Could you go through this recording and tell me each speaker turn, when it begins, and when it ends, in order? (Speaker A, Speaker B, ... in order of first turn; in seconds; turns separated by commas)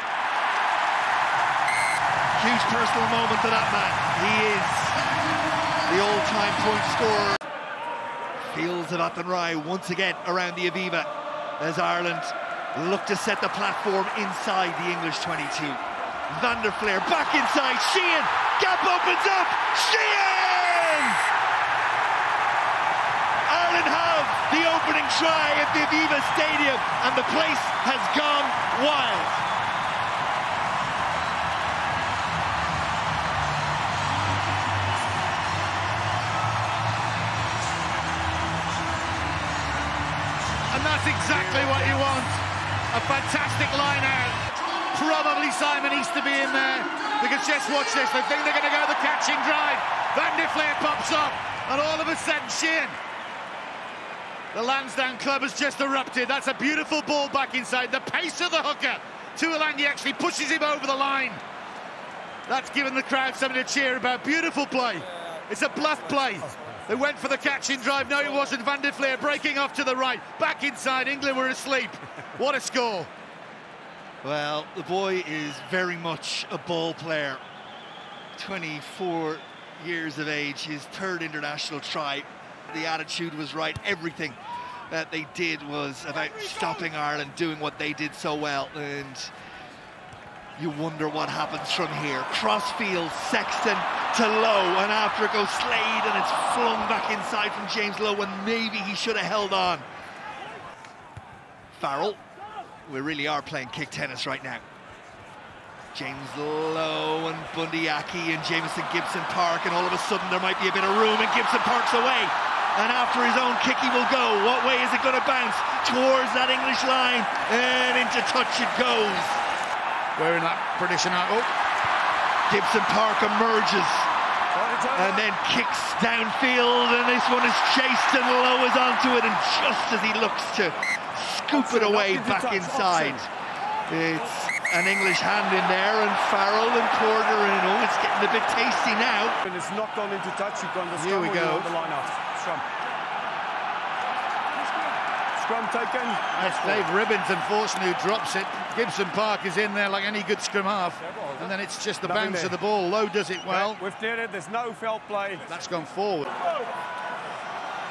Speaker A: 2.4-5.0, Speaker A: 5.9-7.4, Speaker A: 8.4-21.2, Speaker A: 23.5-29.4, Speaker B: 40.7-44.4, Speaker B: 44.9-53.0, Speaker B: 54.5-61.4, Speaker B: 62.5-73.1, Speaker A: 74.2-77.4, Speaker A: 78.3-84.4, Speaker A: 84.9-89.3, Speaker A: 90.6-99.8, Speaker A: 101.7-102.2, Speaker A: 102.8-104.6, Speaker A: 105.9-119.4, Speaker B: 120.2-121.5, Speaker A: 122.5-124.1, Speaker C: 124.5-125.3, Speaker A: 124.9-133.3, Speaker C: 131.5-133.2, Speaker A: 133.9-139.4, Speaker C: 139.4-142.6, Speaker B: 141.0-141.7, Speaker C: 145.3-146.8, Speaker B: 146.3-153.8, Speaker C: 152.0-152.6, Speaker C: 153.5-155.5, Speaker B: 155.5-156.3